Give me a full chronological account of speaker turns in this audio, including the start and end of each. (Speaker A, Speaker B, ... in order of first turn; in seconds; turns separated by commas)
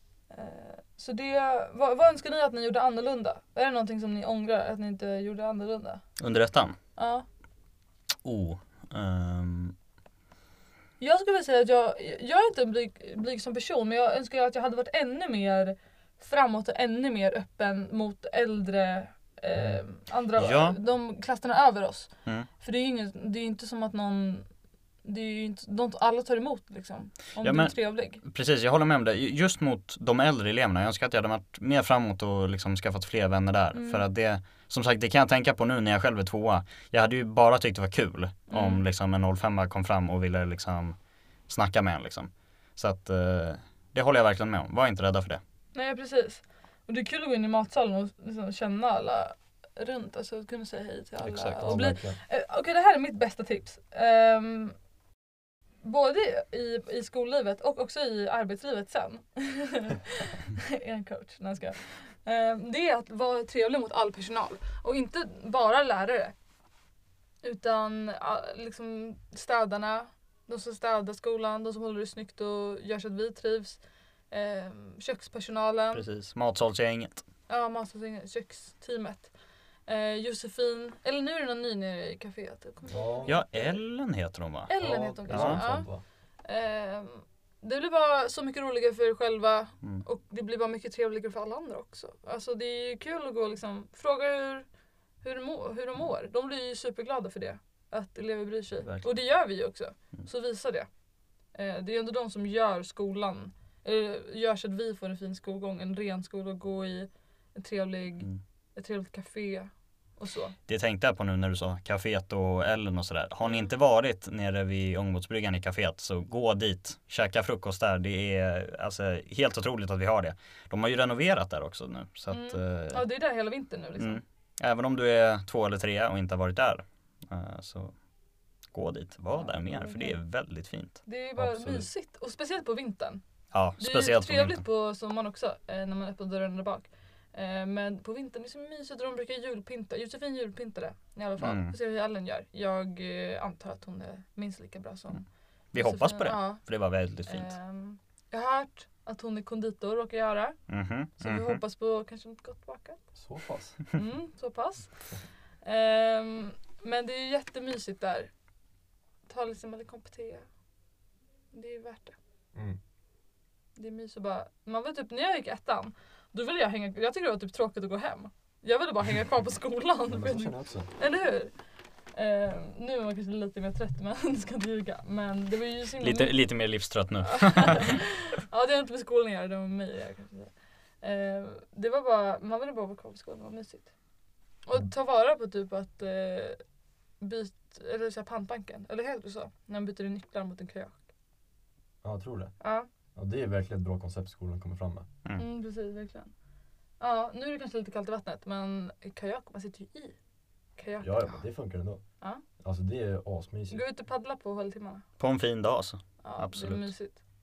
Speaker A: 0.3-6.0, Speaker B: 6.2-6.8, Speaker A: 7.0-7.2, Speaker B: 8.2-9.7, Speaker A: 11.0-24.5, Speaker B: 20.4-20.8, Speaker A: 25.0-28.2, Speaker B: 27.4-41.0, Speaker A: 33.7-34.0, Speaker A: 38.5-38.8, Speaker B: 41.5-45.4, Speaker A: 45.7-54.8, Speaker B: 51.2-51.8, Speaker C: 51.6-52.2, Speaker A: 55.8-66.3, Speaker A: 67.4-73.8, Speaker A: 74.3-76.0, Speaker B: 75.9-77.2, Speaker A: 77.5-79.3, Speaker A: 79.9-83.8, Speaker C: 82.9-83.4, Speaker B: 83.3-84.7, Speaker A: 84.7-85.9, Speaker C: 84.8-86.0, Speaker B: 85.3-85.6, Speaker A: 86.4-94.7, Speaker A: 95.2-100.9, Speaker A: 101.5-110.5, Speaker B: 110.7-123.0, Speaker A: 113.4-113.7, Speaker A: 122.3-124.2, Speaker B: 124.0-127.9, Speaker B: 128.7-131.0, Speaker A: 129.3-130.2, Speaker A: 131.0-133.2, Speaker C: 131.4-131.9, Speaker B: 133.5-134.6, Speaker A: 133.8-146.6, Speaker B: 141.4-141.7, Speaker B: 145.7-147.5, Speaker A: 147.3-150.6, Speaker B: 150.7-151.6, Speaker A: 151.2-153.0, Speaker C: 153.1-153.8, Speaker A: 153.9-154.9, Speaker A: 155.6-158.3, Speaker A: 159.3-160.4, Speaker A: 161.5-162.2, Speaker A: 163.8-171.5, Speaker C: 170.1-170.9, Speaker A: 172.1-176.4, Speaker B: 176.0-178.0, Speaker A: 177.2-183.9, Speaker A: 184.7-186.6, Speaker A: 187.2-191.0, Speaker C: 192.0-192.5, Speaker A: 192.6-192.9, Speaker C: 193.1-195.1, Speaker A: 195.4-196.3, Speaker A: 197.0-200.2, Speaker A: 200.8-201.4, Speaker C: 201.0-202.0, Speaker C: 202.6-203.8, Speaker A: 203.7-205.0, Speaker B: 205.2-206.9, Speaker A: 206.2-207.2